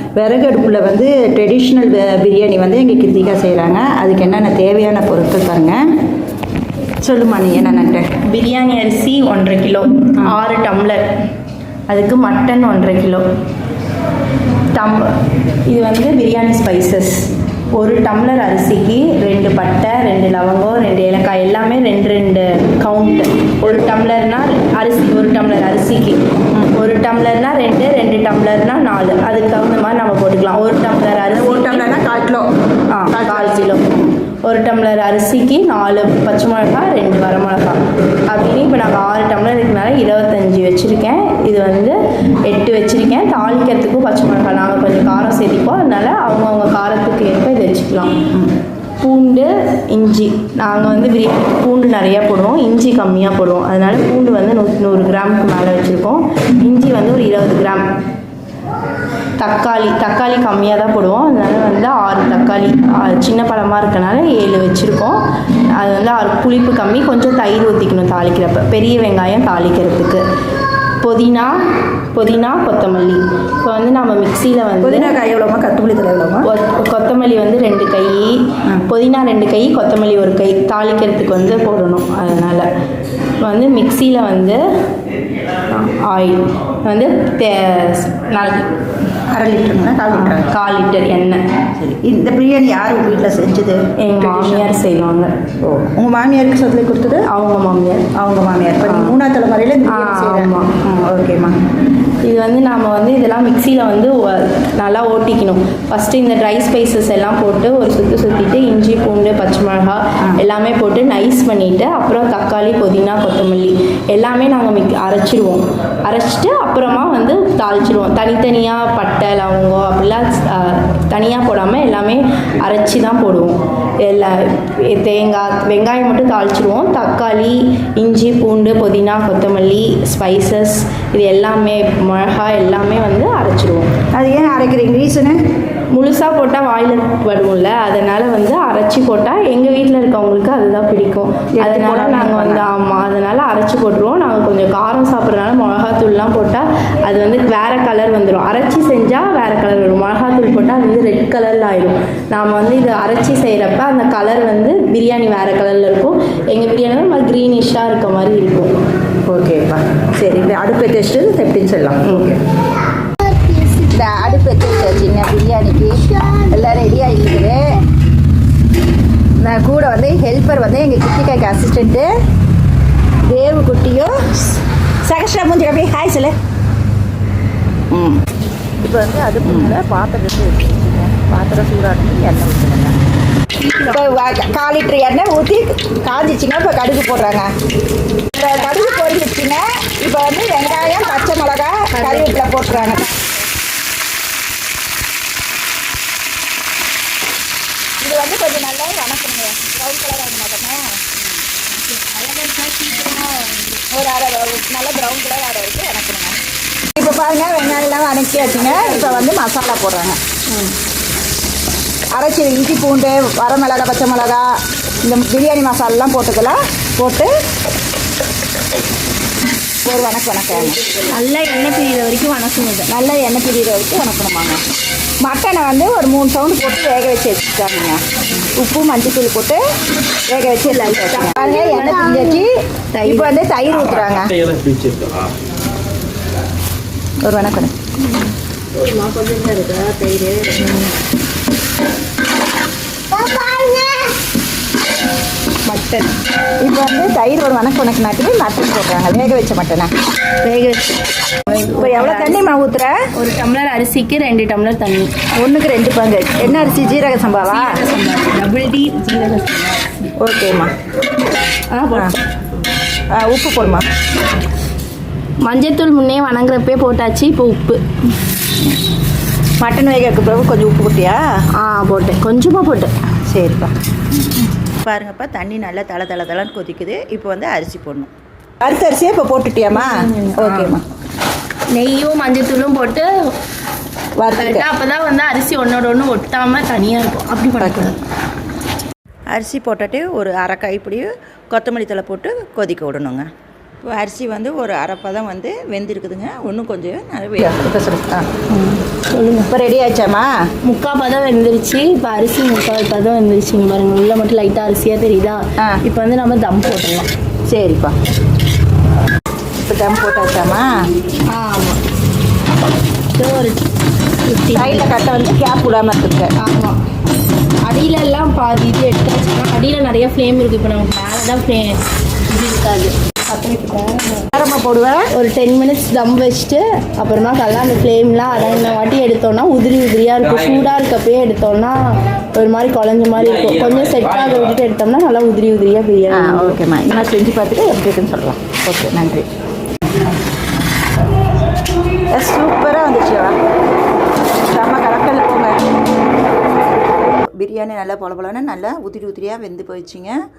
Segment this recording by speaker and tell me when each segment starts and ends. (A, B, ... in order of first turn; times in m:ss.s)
0:00.2-0:05.8 A
0:07.0-0:08.1 A
0:08.2-0:11.1 B
0:11.9-0:13.2 B
0:14.7-0:31.9 B
0:31.3-0:32.5 A
0:32.9-0:48.2 B
0:33.1-0:34.1 A
0:49.0-0:57.8 B
0:59.4-1:05.2 B
1:05.8-1:10.2 B
1:11.0-1:11.6 B
1:12.1-1:15.1 B
1:14.8-1:16.5 A
1:16.4-1:22.7 B
1:23.4-1:24.6 B
1:25.7-1:28.7 B
1:29.3-1:30.5 A
1:30.1-1:31.4 B
1:31.8-1:34.8 A
1:34.0-1:35.3 B
1:35.6-1:37.2 A
1:37.3-1:38.0 B
1:38.1-1:41.6 A
1:38.8-1:39.1 B
1:39.9-1:40.7 B
1:42.2-2:13.9 B
2:14.1-2:15.4 A
2:15.9-2:38.7 B
2:21.6-2:22.7 A
2:39.2-2:42.4 A
2:43.5-2:47.6 A
2:49.4-2:52.1 A
2:53.3-2:56.4 A
2:57.9-2:58.2 A
2:58.8-3:03.0 A
3:03.5-3:04.1 B
3:03.8-3:07.5 A
3:08.3-3:13.3 A
3:11.9-3:13.0 B
3:18.0-3:21.2 A
3:21.7-3:23.9 B
3:23.9-3:26.4 A
3:26.9-3:30.2 A
3:28.6-3:29.2 B
3:30.5-3:30.7 B
3:32.1-3:34.5 A
3:35.0-3:37.3 A
3:39.8-3:40.8 A
3:41.0-3:42.9 B
3:42.9-3:44.6 A
3:45.2-3:49.6 A
3:50.3-3:52.5 A
3:50.6-3:53.3 B
3:53.0-3:54.6 A
3:57.2-3:57.7 A
3:58.1-4:00.9 B
4:03.2-4:04.0 B
4:05.6-4:06.1 B
4:06.6-4:09.9 A
4:10.4-4:10.8 B
4:11.4-4:12.5 B
4:11.8-4:13.0 A
4:13.1-4:15.1 B
4:15.4-4:17.8 A
4:17.4-4:20.1 B
4:20.2-4:20.7 A
4:21.7-4:22.2 B
4:23.1-4:23.9 A
4:25.4-4:27.8 B
4:29.6-4:31.2 A
4:31.6-4:32.9 B
4:33.3-4:33.7 A
4:34.2-4:40.8 A
4:39.7-4:40.8 B
4:41.7-4:43.1 B
4:44.2-4:44.7 A
4:44.3-4:48.0 B
4:47.6-4:47.9 A
4:49.3-4:53.3 A
4:53.8-4:58.3 A
4:58.5-4:59.5 B
4:59.5-5:00.3 A
5:00.6-5:07.1 B
5:07.5-5:08.0 A
5:09.6-5:10.9 A
5:11.3-5:11.8 B
5:13.2-5:13.7 B
5:14.3-5:14.9 B
5:14.5-5:16.3 A
5:16.4-5:16.8 B
5:17.6-5:24.3 B
5:24.3-5:25.1 A
5:25.1-5:31.8 B
5:32.3-5:36.6 B
5:36.1-5:39.3 A
5:39.9-5:40.2 A
5:42.1-5:43.4 A
5:44.3-5:45.6 A
5:46.5-5:50.2 A